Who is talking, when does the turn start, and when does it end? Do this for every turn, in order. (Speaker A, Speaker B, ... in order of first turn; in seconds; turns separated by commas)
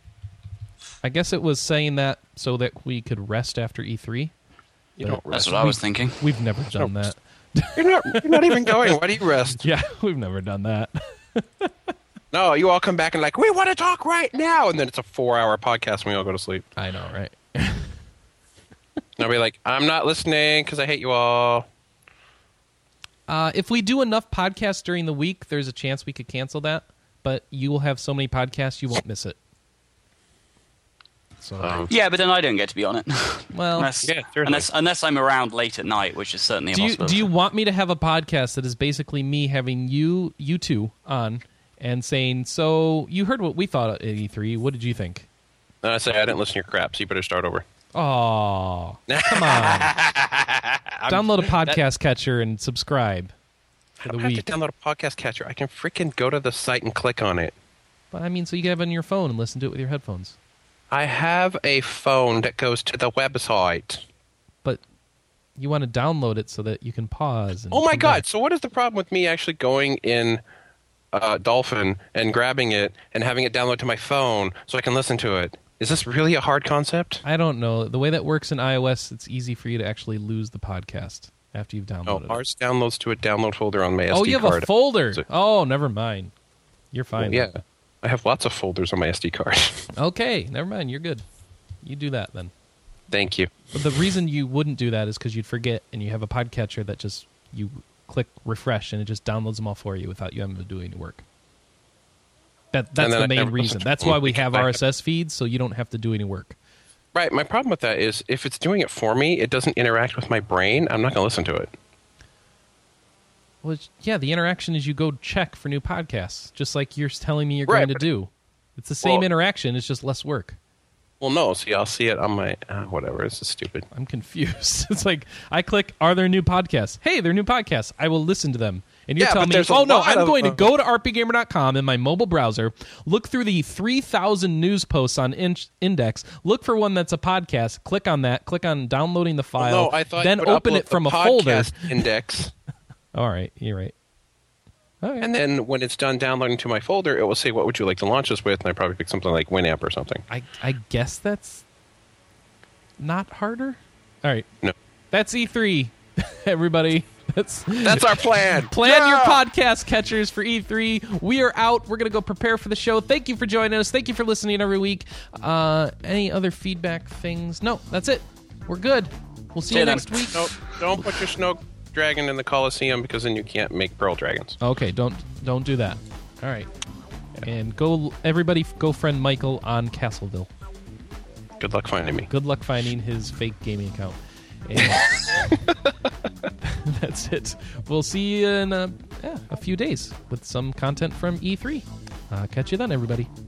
Speaker A: 1.0-4.3, Speaker B: 5.0-5.7, Speaker A: 5.0-8.9, Speaker C: 5.3-6.2, Speaker B: 7.8-9.6, Speaker A: 9.5-11.9, Speaker B: 12.3-16.7, Speaker A: 16.8-17.9, Speaker B: 19.2-21.6, Speaker A: 23.3-29.4, Speaker A: 31.4-31.8, Speaker B: 31.6-31.9, Speaker C: 31.9-37.3, Speaker A: 33.5-33.9, Speaker B: 34.0-34.7, Speaker A: 36.7-45.3, Speaker B: 45.8-47.6, Speaker A: 47.9-49.9, Speaker B: 49.1-51.8, Speaker A: 51.1-53.3, Speaker B: 54.0-57.5, Speaker A: 54.1-54.5, Speaker A: 58.1-60.4, Speaker B: 60.9-64.0, Speaker A: 65.6-68.2, Speaker B: 67.7-70.4, Speaker B: 71.1-77.2, Speaker A: 77.2-82.4, Speaker B: 82.0-85.2, Speaker A: 84.1-86.3, Speaker A: 86.9-87.5, Speaker B: 87.2-89.9, Speaker A: 89.9-91.2, Speaker A: 91.8-92.5, Speaker B: 93.1-93.5, Speaker A: 93.7-101.2, Speaker A: 102.7-106.5, Speaker B: 103.0-104.8, Speaker B: 107.1-111.7, Speaker A: 113.6-120.6, Speaker B: 117.7-118.0, Speaker B: 119.0-119.3, Speaker B: 121.2-123.9, Speaker A: 123.9-141.9, Speaker B: 129.2-130.7, Speaker B: 139.6-142.5, Speaker A: 143.1-143.9, Speaker A: 145.0-145.3, Speaker B: 145.2-150.2, Speaker A: 150.3-151.6, Speaker A: 153.0-154.5, Speaker A: 155.1-170.5, Speaker B: 157.8-159.4, Speaker C: 169.7-170.4, Speaker B: 169.8-174.6, Speaker A: 174.6-176.7, Speaker A: 177.4-180.5, Speaker B: 181.6-182.3, Speaker A: 182.3-185.5, Speaker A: 186.6-193.3